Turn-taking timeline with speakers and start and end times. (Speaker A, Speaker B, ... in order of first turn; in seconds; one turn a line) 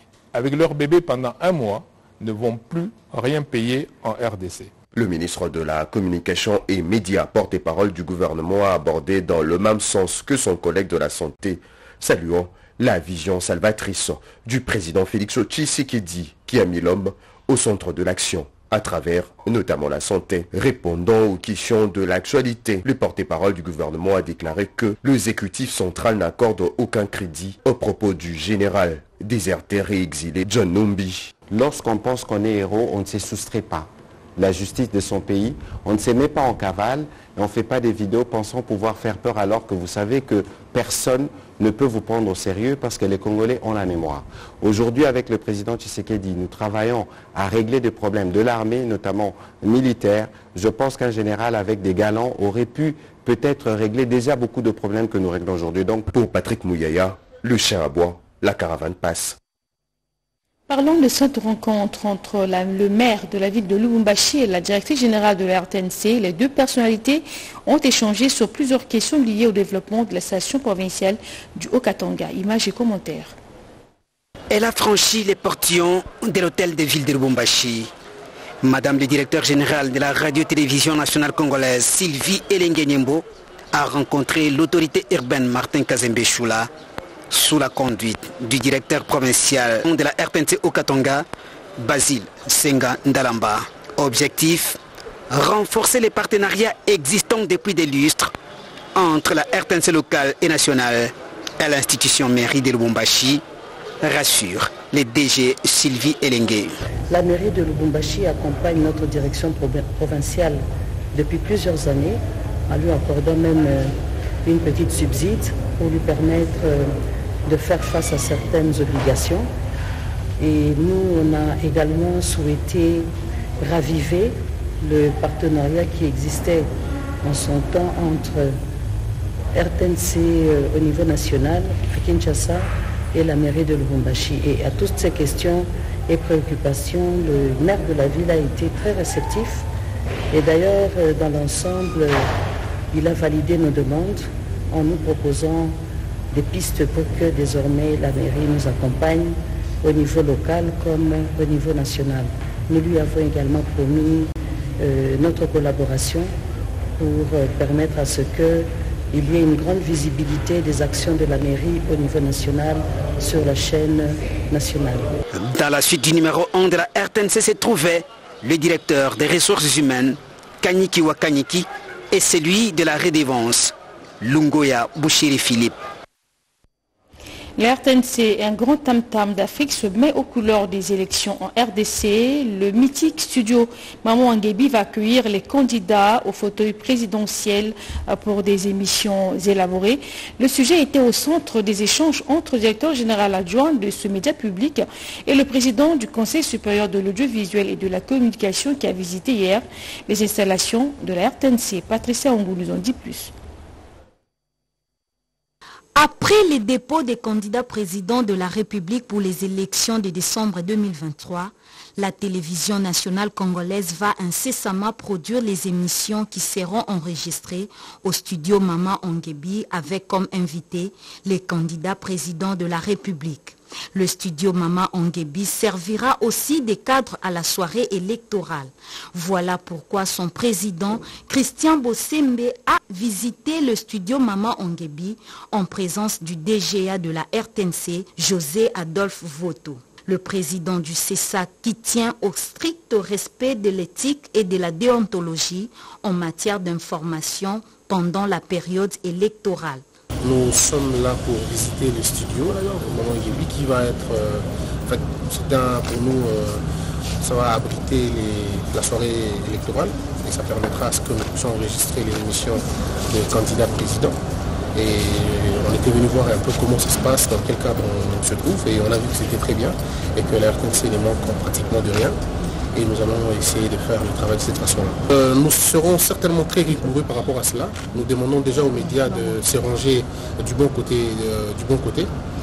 Speaker A: 0.3-4.7
Speaker B: 4.9-31.4
Speaker C: 31.4-56.1
Speaker B: 56.1-59.4
Speaker D: 60.7-73.3
Speaker E: 74.5-77.9
Speaker E: 78.6-86.7
Speaker E: 87.3-91.3
Speaker E: 91.8-94.8
Speaker E: 95.3-98.3
Speaker E: 99.0-103.4
Speaker E: 104.0-106.7
Speaker F: 107.1-114.0
Speaker F: 114.5-116.9
Speaker F: 117.5-119.5
Speaker F: 120.4-123.1
Speaker F: 123.6-126.7
Speaker F: 127.2-128.6
Speaker F: 129.6-139.7
Speaker F: 140.3-142.3
Speaker F: 142.9-145.8
Speaker F: 146.3-156.3
Speaker F: 157.0-165.2
Speaker E: 165.3-175.8
Speaker D: 177.6-203.3
Speaker G: 206.0-249.8
Speaker H: 250.2-256.6
Speaker H: 257.2-264.2
Speaker H: 264.7-272.2
Speaker H: 272.7-282.1